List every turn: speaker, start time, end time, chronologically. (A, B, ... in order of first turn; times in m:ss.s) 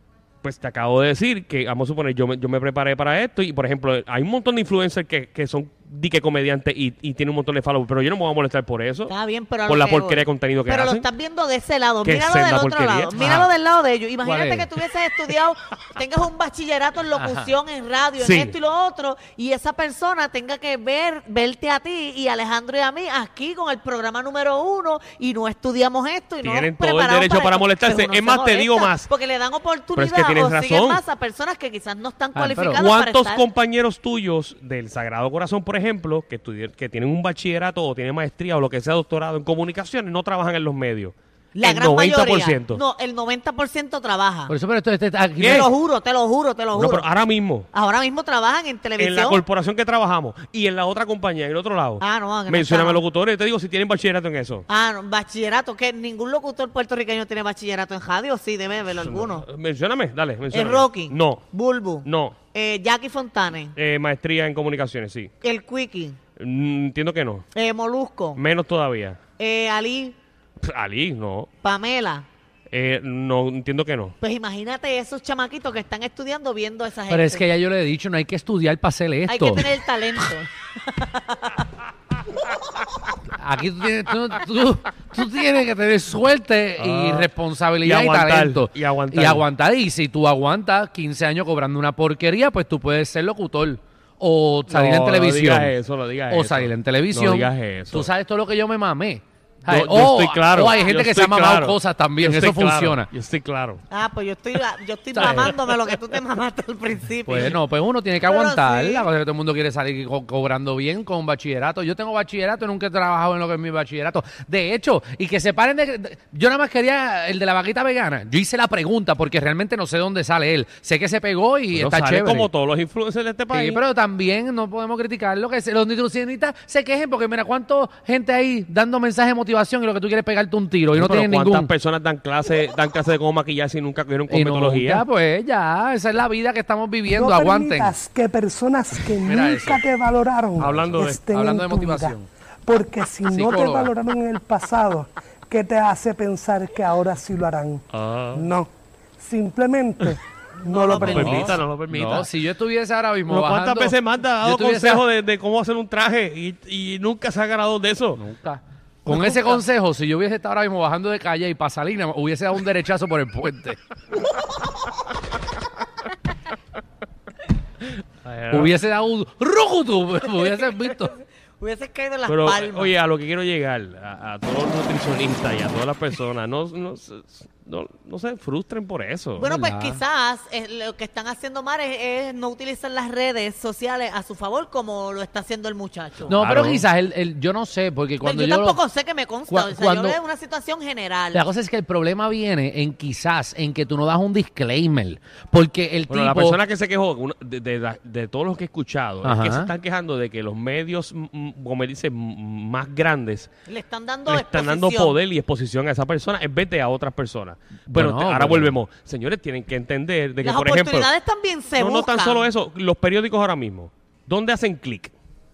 0:00.4-0:09.1 A
0:09.1-0:33.4 B
0:09.6-0:11.1 A
0:12.0-0:13.4 A
0:13.2-0:13.5 C
0:14.2-0:14.8 C
0:17.2-0:17.5 C
0:18.2-0:18.6 A
0:26.4-0:29.1 A
0:30.0-0:31.0 A
0:32.4-0:32.8 C
0:32.7-0:42.8 A
0:41.6-0:44.5 B
0:44.5-0:45.7 C
0:45.4-0:45.7 A
0:45.4-0:47.1 B
0:46.7-0:47.7 A
0:47.7-0:49.4 B
0:49.0-0:54.7 A
0:52.0-0:53.0 B
0:54.7-0:59.4 B
0:58.9-1:01.5 A
1:00.5-1:03.7 B
1:02.0-1:02.4 A
1:03.8-1:05.3 A
1:05.4-1:06.2 B
1:06.4-1:07.4 A
1:07.5-1:08.4 B
1:08.4-1:09.2 A
1:09.4-1:10.2 B
1:10.6-1:11.5 A
1:11.6-1:12.3 B
1:12.7-1:14.2 A
1:14.2-1:17.5 B
1:17.1-1:19.7 C
1:19.3-1:21.6 B
1:23.3-1:35.7 C
1:26.8-1:27.3 A
1:27.8-1:29.5 A
1:34.7-1:38.1 A
1:36.3-1:43.1 C
1:39.7-1:43.8 A
1:43.9-1:47.6 B
1:45.1-1:45.6 C
1:45.2-1:45.5 A
1:47.3-2:02.5 C
1:48.2-1:49.1 B
2:01.7-2:03.8 A
2:03.5-2:11.7 C
2:11.0-2:15.1 A
2:14.3-2:18.0 C
2:17.1-2:31.6 D
2:19.1-2:19.8 C
2:20.6-2:21.2 A
2:20.9-2:22.3 C
2:23.3-2:23.9 C
2:27.9-2:28.5 A
2:30.7-2:31.6 B
2:30.8-2:32.3 A
2:31.0-2:35.0 C
2:33.3-2:38.2 A
2:38.2-2:43.8 C
2:39.2-2:39.5 A
2:48.2-2:48.7 A
2:48.5-2:51.2 C
2:51.6-2:52.9 B
2:52.3-2:59.4 A
2:59.4-3:06.4 B
2:59.4-3:00.0 C
3:06.3-3:06.9 A
3:06.3-3:08.8 C
3:08.2-3:11.4 B
3:09.5-3:10.2 C
3:11.3-3:16.6 C
3:16.1-3:23.5 A
3:19.2-3:19.7 C
3:23.7-3:25.2 B
3:24.3-3:31.1 A
3:27.9-3:28.8 C
3:30.4-3:32.5 B
3:31.8-3:35.1 A